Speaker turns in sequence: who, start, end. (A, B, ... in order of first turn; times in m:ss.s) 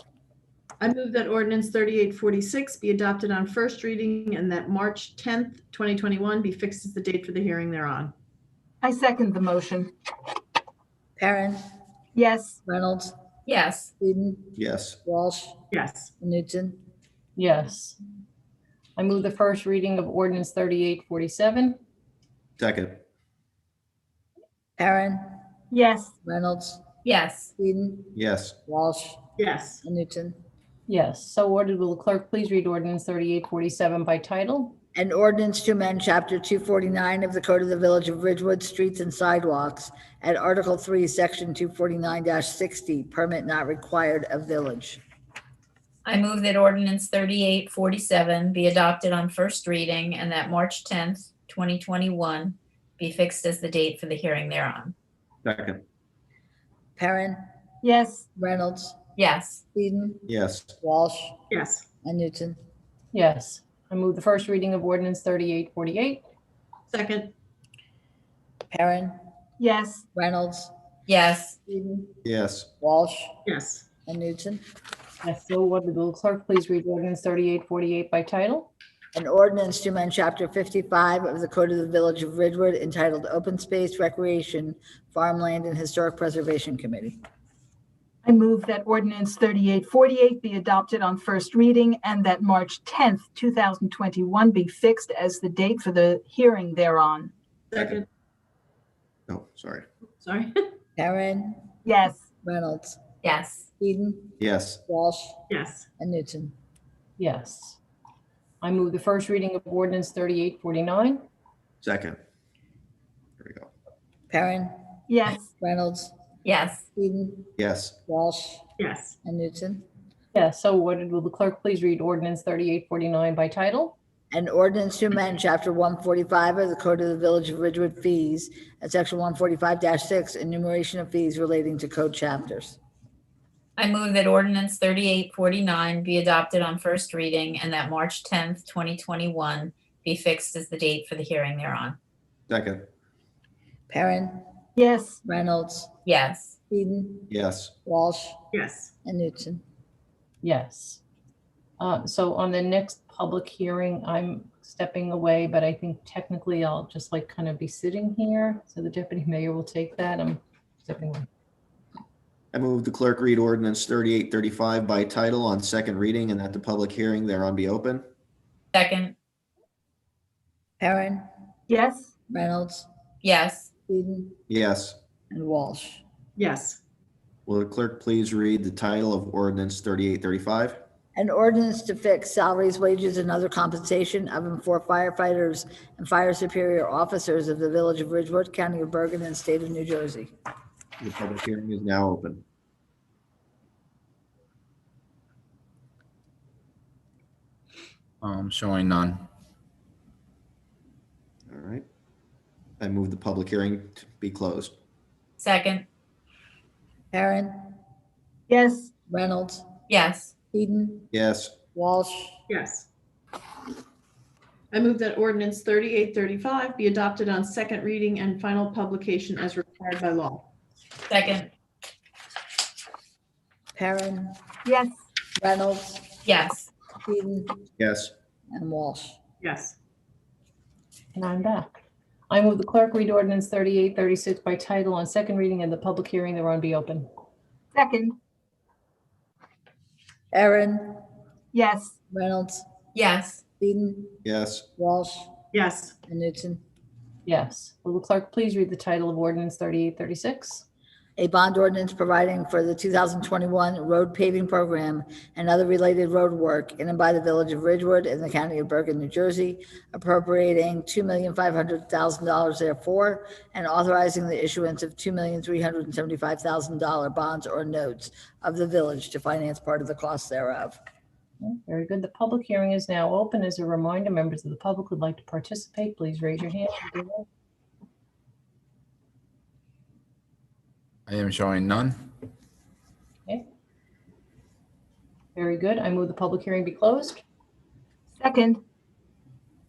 0:00.8-0:08.1 A
0:08.8-0:09.9 B
0:11.2-0:11.6 C
0:12.2-0:12.6 B
0:12.7-0:13.1 C
0:13.5-0:13.9 D
0:14.0-0:15.6 C
0:14.6-0:15.0 E
0:15.7-0:16.1 A
0:16.2-0:16.8 C
0:17.4-0:18.0 F
0:19.0-0:21.8 F
0:22.6-0:23.0 E
0:24.8-0:25.3 C
0:25.7-0:26.1 B
0:26.2-0:26.8 C
0:27.0-0:27.5 D
0:27.6-0:28.2 C
0:28.2-0:28.6 E
0:28.7-0:29.2 C
0:29.4-0:29.8 A
0:29.8-0:30.4 C
0:30.9-0:34.8 F
0:35.0-0:45.0 C
0:46.0-0:54.9 D
0:55.4-0:55.8 E
0:57.0-0:57.4 C
0:57.8-0:58.3 B
0:58.4-0:59.0 C
0:59.2-0:59.6 D
0:59.7-1:00.3 C
1:00.3-1:00.8 E
1:00.8-1:01.4 C
1:01.5-1:01.8 A
1:02.0-1:02.6 C
1:03.1-1:06.2 F
1:06.9-1:07.3 A
1:08.7-1:09.2 C
1:09.6-1:10.0 B
1:10.2-1:10.7 C
1:11.1-1:11.6 D
1:11.7-1:12.2 C
1:12.2-1:12.7 E
1:12.8-1:13.4 C
1:13.4-1:13.8 A
1:14.1-1:14.6 C
1:15.2-1:18.7 F
1:19.2-1:27.2 C
1:28.2-1:37.3 B
1:37.7-1:38.1 A
1:39.3-1:39.8 E
1:40.2-1:40.6 A
1:41.0-1:41.6 C
1:41.8-1:42.2 B
1:42.4-1:43.0 C
1:43.2-1:43.7 D
1:43.8-1:45.4 C
1:44.4-1:44.8 E
1:45.5-1:45.9 A
1:46.0-1:46.5 C
1:47.2-1:47.8 F
1:48.6-1:51.2 F
1:51.8-1:52.2 E
1:53.4-1:53.7 E
1:54.3-1:54.8 C
1:55.1-1:55.5 B
1:55.5-1:56.1 C
1:56.4-1:56.8 D
1:57.0-1:57.5 C
1:57.6-1:58.0 E
1:58.1-1:58.7 C
1:58.8-1:59.2 A
1:59.2-1:59.8 C
2:00.3-2:04.0 F
2:04.3-2:12.8 C
2:13.8-2:22.0 D
2:22.5-2:22.9 E
2:23.9-2:24.4 C
2:24.8-2:25.2 B
2:25.2-2:25.9 C
2:26.1-2:26.6 D
2:26.7-2:27.3 C
2:27.3-2:27.7 E
2:27.8-2:28.4 C
2:28.5-2:28.9 A
2:29.0-2:29.6 C
2:30.4-2:31.0 F
2:31.8-2:41.3 F
2:42.5-2:48.1 E
2:48.7-2:49.1 D
2:50.8-2:51.2 C
2:51.7-2:52.1 B
2:52.3-2:52.9 C
2:53.2-2:53.7 D
2:53.9-2:54.4 C
2:54.5-2:55.0 E
2:55.3-2:56.0 C
2:56.4-2:56.8 A
2:57.5-3:00.8 E
3:01.2-3:10.3 C
3:11.0-3:12.4 E
3:18.2-3:19.2 G
3:21.5-3:21.8 E
3:22.8-3:24.8 E
3:25.4-3:25.9 D
3:27.1-3:27.7 C
3:28.5-3:28.9 B
3:29.1-3:29.6 C
3:29.9-3:30.3 D
3:30.5-3:31.1 C
3:31.1-3:31.5 E
3:31.8-3:32.4 C
3:32.5-3:32.9 A
3:34.7-3:40.5 A
3:41.1-3:41.5 D
3:43.8-3:44.4 C
3:44.6-3:45.0 B
3:45.4-3:46.1 C
3:46.2-3:46.7 D
3:47.0-3:47.6 C
3:47.8-3:48.1 E
3:48.5-3:49.2 C
3:49.4-3:49.8 A
3:51.2-3:51.7 F
3:52.3-3:57.0 F
3:57.7-3:58.2 B
4:00.3-4:01.0 C
4:01.5-4:01.9 B
4:02.1-4:02.6 C
4:02.9-4:03.4 D
4:03.6-4:04.2 C
4:04.2-4:04.7 E
4:04.8-4:05.4 C
4:05.5-4:06.0 A
4:06.1-4:06.6 C
4:07.3-4:10.6 F
4:11.2-4:30.8 C
4:31.5-4:37.2 F
4:41.1-4:42.0 G
4:45.4-4:47.2 F
4:48.2-4:48.6 B